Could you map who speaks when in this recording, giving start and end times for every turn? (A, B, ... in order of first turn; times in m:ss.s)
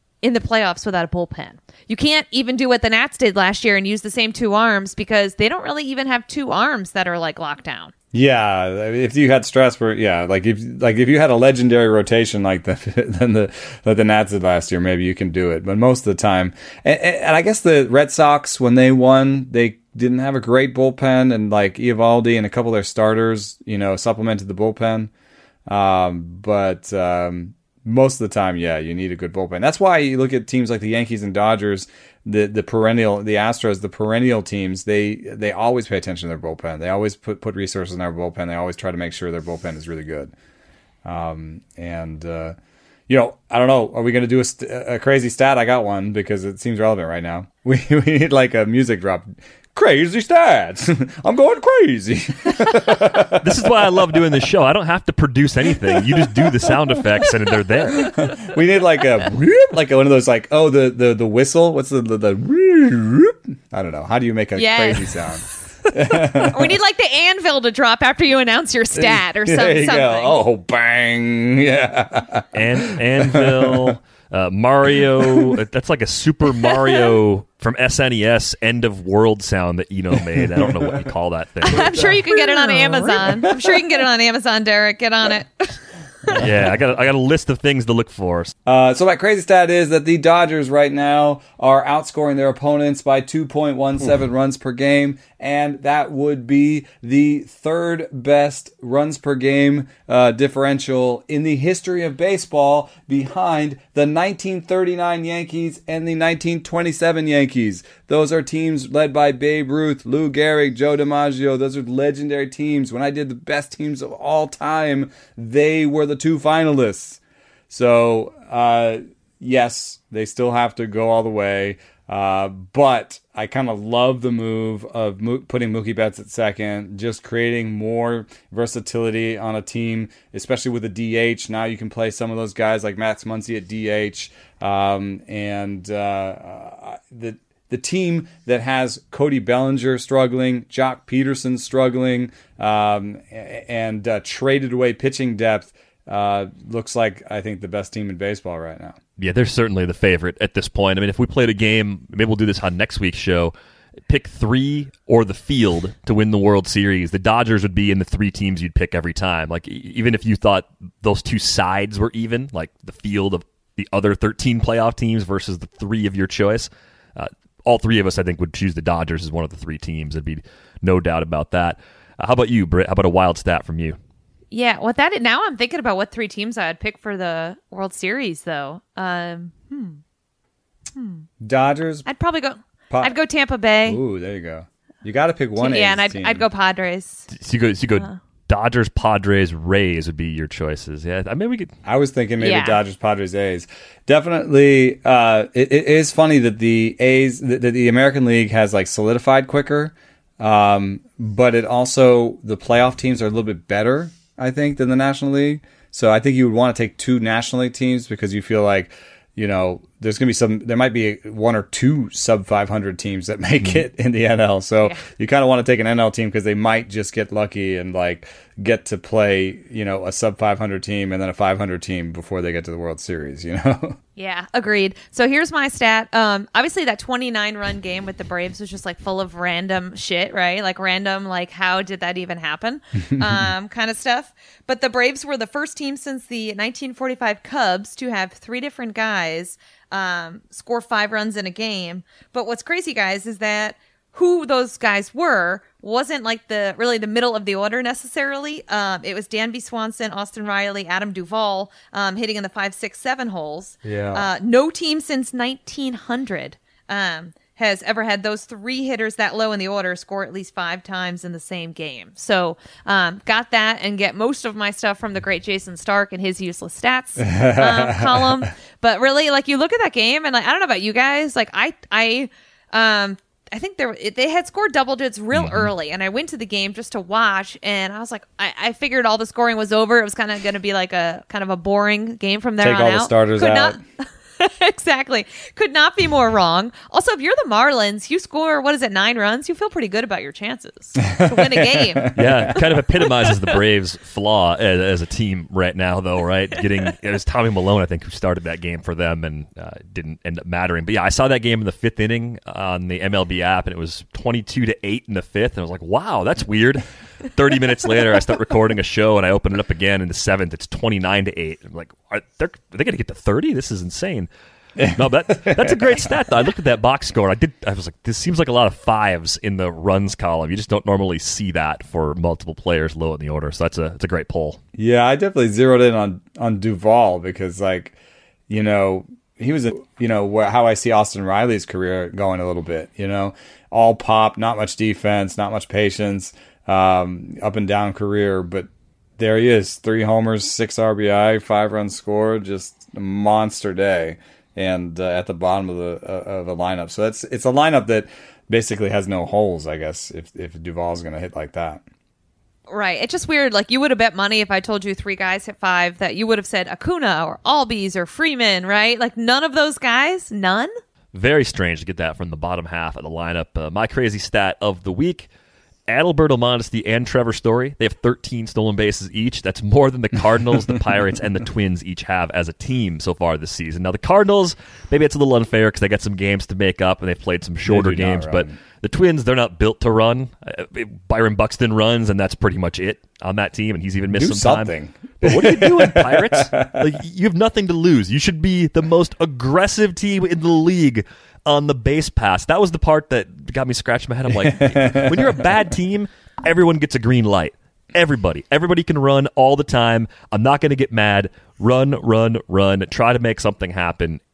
0:00.2-0:07.9 A
0:08.1-0:25.1 B
0:25.7-0:40.3 B
0:41.0-0:42.5 B
0:43.1-0:53.7 B
0:53.3-0:58.1 C
0:55.9-0:56.7 B
0:58.0-1:06.8 B
1:04.6-1:10.4 A
1:08.9-1:14.0 B
1:12.5-1:22.1 C
1:15.2-1:15.5 B
1:20.2-1:21.1 B
1:21.6-1:26.4 A
1:21.6-1:24.0 B
1:26.3-1:28.5 C
1:28.6-2:29.0 B
2:29.2-2:33.5 C
2:34.1-2:54.0 C
2:54.5-3:00.0 A
3:00.9-3:01.3 A
3:01.4-3:02.1 B
3:02.1-3:04.0 A
3:02.9-3:03.2 B
3:03.8-3:06.4 B
3:05.6-3:07.3 A
3:07.3-3:11.7 C
3:11.8-3:44.0 B
3:12.4-3:12.8 A
3:44.2-4:43.8 A
3:53.1-3:53.5 B
4:13.8-4:14.3 B
4:27.2-4:28.5 B
4:35.4-4:35.7 B
4:42.6-4:43.8 B
4:44.4-4:52.1 A
4:51.0-4:52.5 B
4:52.1-5:14.3 C
5:14.8-5:16.1 B
5:14.9-5:24.6 C
5:24.7-5:28.0 B
5:28.5-5:51.8 B
5:52.7-6:00.7 A
6:01.1-6:05.3 C
6:05.9-6:44.2 C
6:17.6-6:18.6 B
6:24.1-6:26.9 B
6:34.3-6:35.4 B